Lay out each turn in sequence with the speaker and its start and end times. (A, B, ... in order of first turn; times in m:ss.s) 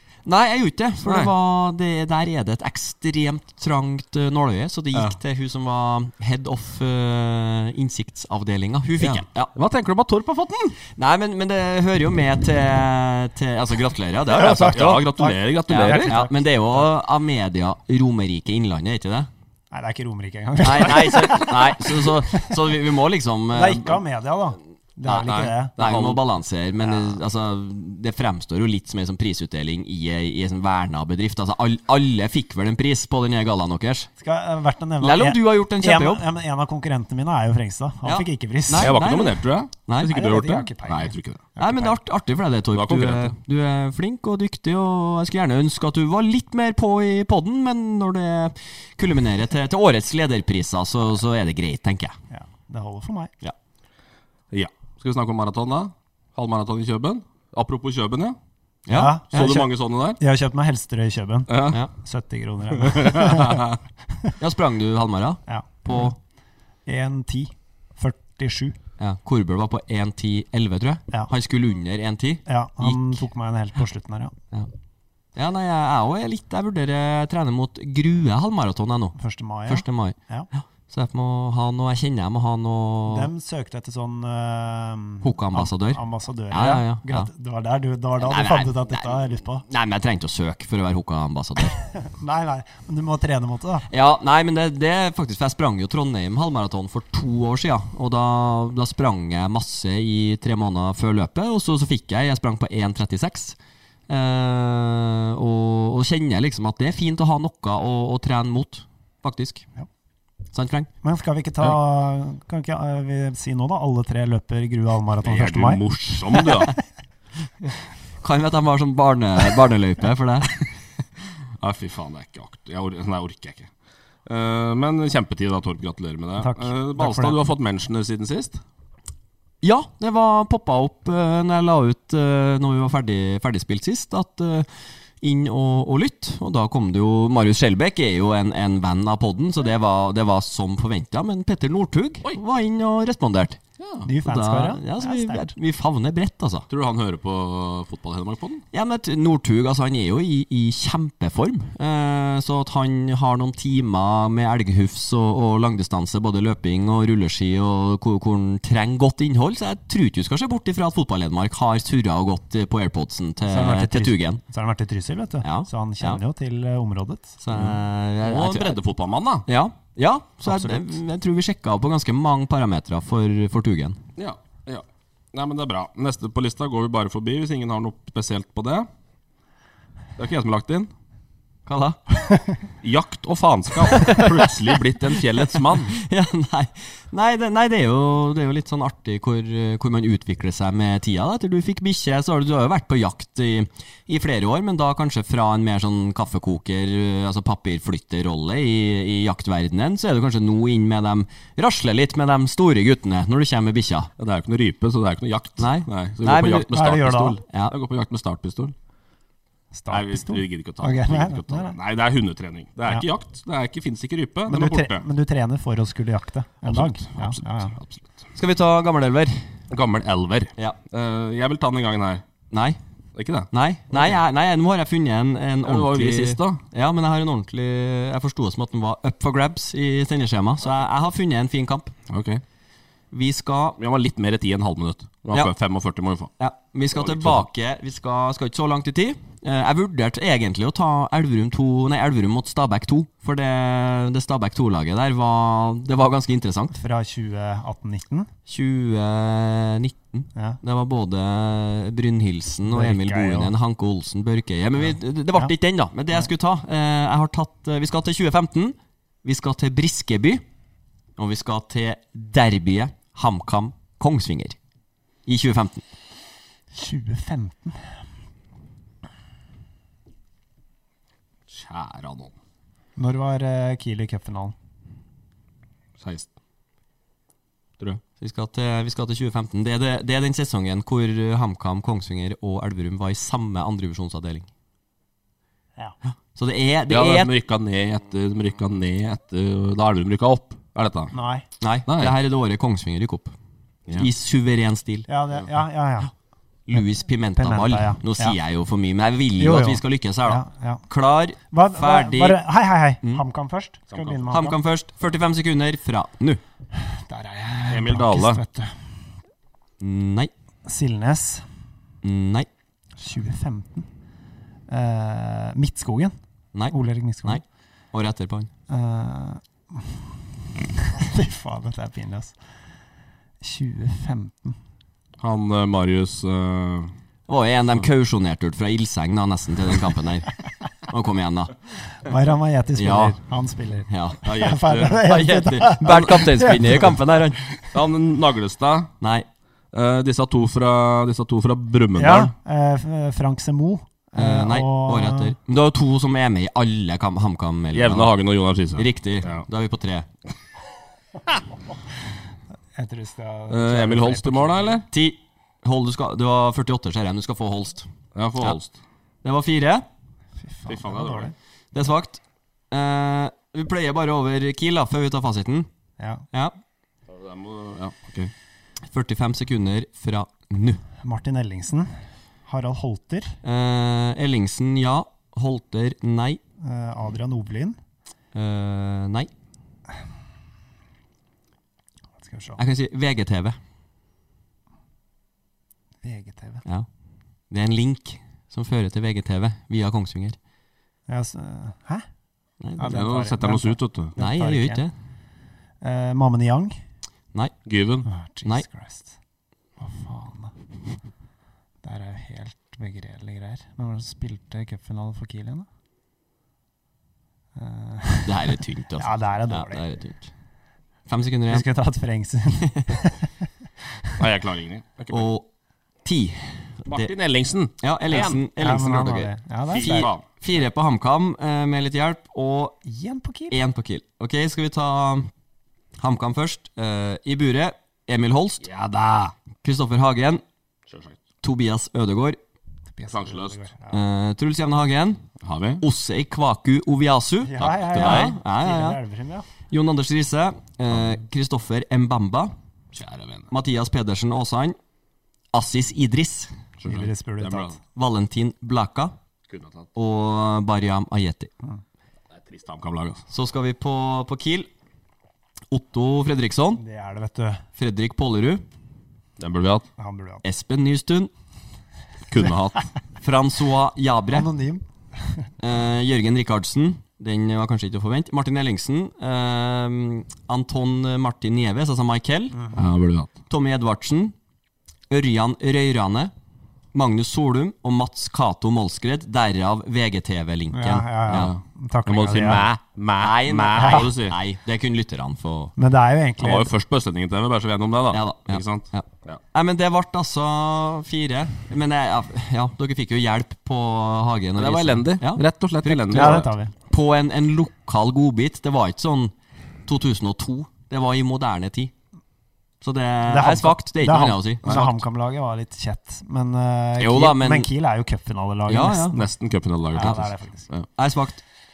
0:00.3-0:09.5 A
0:01.1-0:01.3 B
0:09.0-0:10.8 B
0:11.0-0:15.1 A
0:14.3-0:16.9 C
0:14.7-0:16.1 B
0:15.7-0:19.3 A
0:19.7-0:22.2 C
0:20.6-0:24.0 A
0:23.5-0:26.1 C
0:25.1-0:34.1 A
0:25.2-0:26.2 B
0:26.8-0:27.2 C
0:34.2-0:39.0 C
0:35.0-0:36.2 A
0:38.0-0:40.1 A
0:38.8-0:41.4 B
0:40.0-0:42.0 C
0:41.6-0:52.2 A
0:42.7-0:43.3 B
0:52.3-0:53.3 C
0:54.5-0:58.4 B
0:58.9-0:59.2 A
0:58.9-1:03.6 C
0:59.3-1:00.2 B
1:01.5-1:01.8 B
1:02.8-1:03.8 B
1:04.4-1:06.1 A
1:05.5-1:06.2 C
1:06.9-1:08.8 C
1:09.0-1:13.2 A
1:12.5-1:14.3 C
1:15.4-1:23.3 A
1:19.2-1:20.5 C
1:23.1-1:29.6 C
1:25.2-1:27.3 A
1:28.2-1:31.8 A
1:32.0-1:33.9 C
1:33.9-1:43.6 A
1:44.1-1:49.6 A
1:50.5-1:50.9 A
1:51.0-1:56.7 C
1:55.2-1:56.7 B
1:58.2-2:00.6 A
2:01.6-2:03.7 B
2:04.3-2:08.6 B
2:06.4-2:07.4 C
2:09.6-2:14.7 A
2:15.2-2:23.6 A
2:23.8-2:24.1 B
2:24.0-2:25.5 C
2:24.2-2:26.7 A
2:26.7-2:28.6 B
2:28.7-2:44.4 A
2:43.5-2:47.4 C
2:45.4-2:46.2 A
2:47.4-2:48.8 A
2:47.5-2:49.5 B
2:49.5-2:54.0 A
2:54.2-2:58.9 B
3:00.2-3:00.9 B
3:01.7-3:02.0 A
3:02.8-3:06.0 B
3:03.9-3:04.3 A
3:06.0-3:24.1 A
3:24.2-3:28.7 B
3:25.6-3:26.8 A
3:26.7-3:27.4 C
3:27.5-3:27.8 A
3:29.7-3:31.8 C
3:29.9-3:35.0 B
3:34.5-3:37.8 C
3:36.6-3:38.1 B
3:38.4-3:39.4 A
3:39.7-3:42.2 B
3:42.5-3:42.8 A
3:43.2-3:44.2 B
3:43.5-3:51.9 A
3:45.7-3:46.6 B
3:52.1-3:52.4 B
3:53.1-3:53.8 A
3:53.8-3:56.3 B
3:56.4-4:06.7 A
3:56.9-3:57.5 B
4:06.7-4:08.3 C
4:08.5-4:20.4 A
4:12.7-4:13.5 C
4:14.9-4:15.5 C
4:21.2-4:24.6 A
4:25.3-4:25.8 A
4:26.8-4:27.8 C
4:31.5-4:32.3 B
4:33.0-4:34.6 C
4:36.0-4:36.3 B
4:38.2-4:44.5 A
4:46.4-4:47.3 A
4:46.9-4:51.1 B
4:51.1-4:51.5 C
4:51.6-4:53.3 A
4:51.9-4:52.1 B
4:53.9-4:55.1 A
4:55.1-4:56.1 C
4:56.7-5:02.4 A
4:57.4-4:58.4 C
4:59.4-5:00.8 C
5:01.5-5:04.6 C
5:03.9-5:04.2 B
5:04.3-5:06.4 A
5:06.8-5:09.0 C
5:07.7-5:08.4 B
5:09.8-5:10.3 A
5:10.7-5:11.5 C
5:12.0-5:12.5 A
5:13.0-5:13.9 C
5:14.7-5:16.2 C
5:16.5-5:17.4 A
5:16.7-5:17.4 C
5:17.9-5:18.5 A
5:18.7-5:20.1 C
5:20.9-5:22.4 C
5:23.4-5:24.6 C
5:25.2-5:26.9 B
5:27.3-5:30.3 A
5:30.9-5:31.5 A
5:32.0-5:37.0 C
5:32.8-5:33.2 A
5:33.9-5:34.4 A
5:34.2-5:35.0 B
5:35.0-5:37.4 A
5:37.7-5:38.9 B
5:39.0-5:39.3 A
5:39.7-5:42.3 B
5:42.0-5:45.4 C
5:44.2-5:48.1 A
5:47.7-5:49.4 B
5:48.8-5:50.1 A
5:52.8-5:54.8 C
5:53.5-5:54.8 B
5:54.9-5:57.9 A
5:58.2-5:58.8 B
5:59.2-5:59.9 A
6:00.4-6:01.3 C
6:00.7-6:01.3 B
6:01.7-6:05.7 A
6:06.0-6:06.2 C
6:07.1-6:08.3 B
6:08.9-6:10.8 A
6:11.0-6:11.9 C
6:12.5-6:13.4 C
6:13.4-6:16.4 A
6:16.6-6:17.8 C
6:18.3-6:19.3 A
6:22.2-6:22.6 C
6:22.6-6:23.6 A
6:26.0-6:26.6 C
6:27.5-6:30.4 A
6:31.1-6:32.0 C
6:32.6-6:33.0 A
6:32.8-6:34.8 C
6:32.9-6:34.1 B
6:34.2-6:34.9 A
6:35.8-6:36.8 C
6:37.7-6:38.1 B
6:38.1-6:39.2 C
6:39.8-6:40.5 C
6:41.8-6:45.7 C
6:47.6-6:49.8 C
6:48.2-6:50.3 A
6:51.1-6:51.7 A
6:51.5-6:53.3 C
6:54.2-6:55.3 B
6:55.1-6:55.5 A
6:56.0-6:57.1 A
6:56.9-6:58.4 B
6:57.8-7:02.8 A
6:58.2-7:00.1 C
6:59.7-7:00.2 B
7:02.8-7:03.6 C
7:03.5-7:05.3 A
7:06.0-7:08.6 A
7:08.6-7:09.3 B
7:09.6-7:10.4 A
7:10.9-7:11.2 B
7:11.4-7:12.4 A
7:13.0-7:14.0 C
7:13.1-7:13.6 B
7:13.9-7:15.2 A
7:15.4-7:15.8 B
7:15.8-7:19.0 A
7:17.4-7:19.5 C
7:17.6-7:18.3 B
7:19.7-7:22.5 A
7:22.9-7:23.5 B
7:23.5-7:24.8 A
7:25.5-7:26.5 A
7:26.8-7:27.8 B
7:26.9-7:27.8 C
7:28.0-7:29.1 A
7:29.5-7:29.9 B
7:30.0-7:31.5 A
7:32.3-7:33.2 B
7:33.3-7:34.7 A
7:35.7-7:36.8 A
7:36.8-7:37.6 C
7:37.8-7:38.6 A
7:39.4-7:39.9 B
7:40.0-7:40.4 C
7:40.4-7:41.3 A
7:42.3-7:42.9 B
7:43.2-7:44.5 A
7:44.3-7:45.5 C
7:45.6-7:52.6 A
7:52.6-7:52.8 C
7:52.7-7:53.3 B
7:53.5-7:54.4 A
7:55.1-7:56.3 A
7:56.9-8:01.5 A
8:00.7-8:02.6 C
8:01.3-8:04.4 B
8:03.2-8:05.7 A
8:03.8-8:04.1 C
8:05.8-8:06.7 C
8:06.4-8:09.4 B
8:08.1-8:19.3 A
8:14.6-8:16.5 B
8:16.1-8:16.7 C
8:19.9-8:21.9 A
8:22.8-8:24.8 A
8:23.3-8:29.2 C
8:24.6-8:25.0 B
8:27.0-8:27.7 A
8:28.7-8:29.2 A
8:29.1-8:30.9 B
8:29.9-8:30.7 C
8:31.0-8:31.4 A